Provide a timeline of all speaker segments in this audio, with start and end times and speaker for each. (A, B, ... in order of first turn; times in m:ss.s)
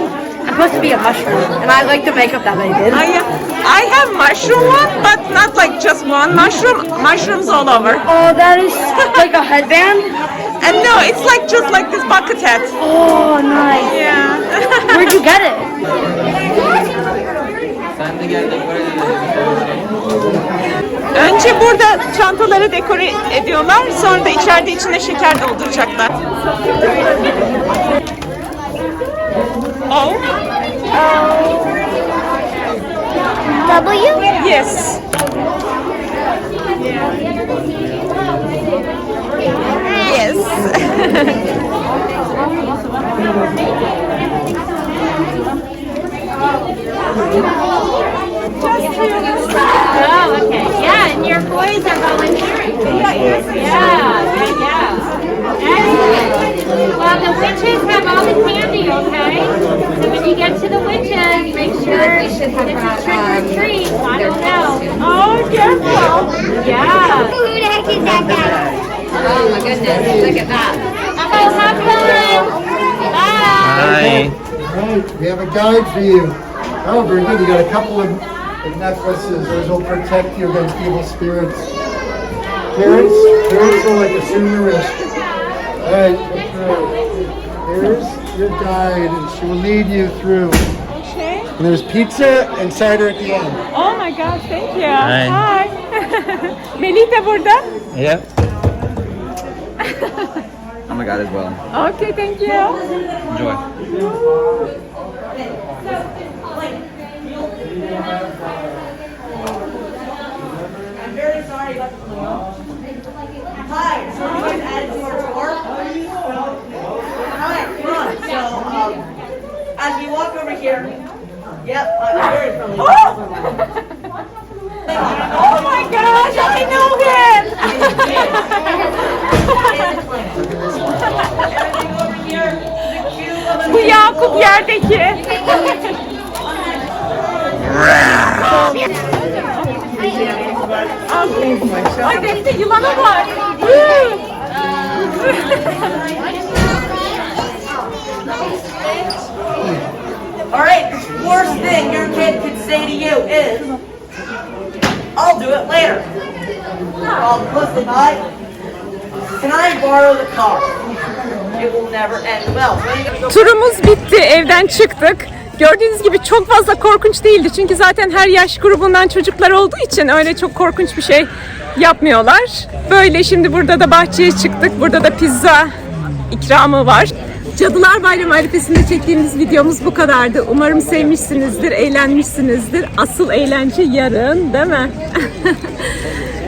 0:00.5-0:03.0 A
0:02.9-0:08.1 B
0:08.1-0:10.1 A
0:10.6-0:12.8 B
0:12.8-0:13.9 A
0:13.7-0:15.3 B
0:14.9-0:15.7 A
0:18.6-0:19.6 C
0:21.1-0:26.1 B
0:29.9-0:30.2 B
0:30.9-0:31.9 D
0:33.5-0:34.3 D
0:34.3-0:35.0 B
0:39.9-0:41.4 B
0:48.6-0:49.4 B
0:49.8-0:56.4 E
0:56.9-1:07.4 E
1:05.1-1:06.2 B
1:06.9-1:08.6 D
1:09.3-1:10.5 F
1:09.4-1:10.0 E
1:11.2-1:12.6 E
1:11.5-1:12.5 F
1:13.1-1:13.8 E
1:13.6-1:21.7 F
1:13.6-1:14.4 C
1:22.7-1:25.1 F
1:25.8-1:27.1 F
1:27.6-1:30.7 F
1:30.9-1:31.5 B
1:31.6-1:33.6 F
1:33.7-1:37.7 B
1:35.0-1:35.4 C
1:37.9-1:38.3 C
1:39.9-1:40.4 B
1:40.9-1:41.6 C
1:41.7-1:42.8 B
1:43.3-1:43.6 C
1:47.4-1:47.7 G
1:51.0-1:52.3 G
1:53.7-1:55.9 G
1:57.3-1:59.0 G
1:59.8-2:01.0 G
2:01.6-2:02.7 G
2:02.7-2:03.7 B
2:04.9-2:09.9 B
2:11.9-2:12.6 G
2:13.5-2:15.8 B
2:21.1-2:24.2 B
2:25.0-2:25.9 B
2:30.5-2:33.7 G
2:35.2-2:36.1 G
2:37.2-2:38.2 G
2:39.4-2:40.7 G
2:41.6-2:43.0 G
2:43.3-2:55.7 B
2:56.3-3:06.0 B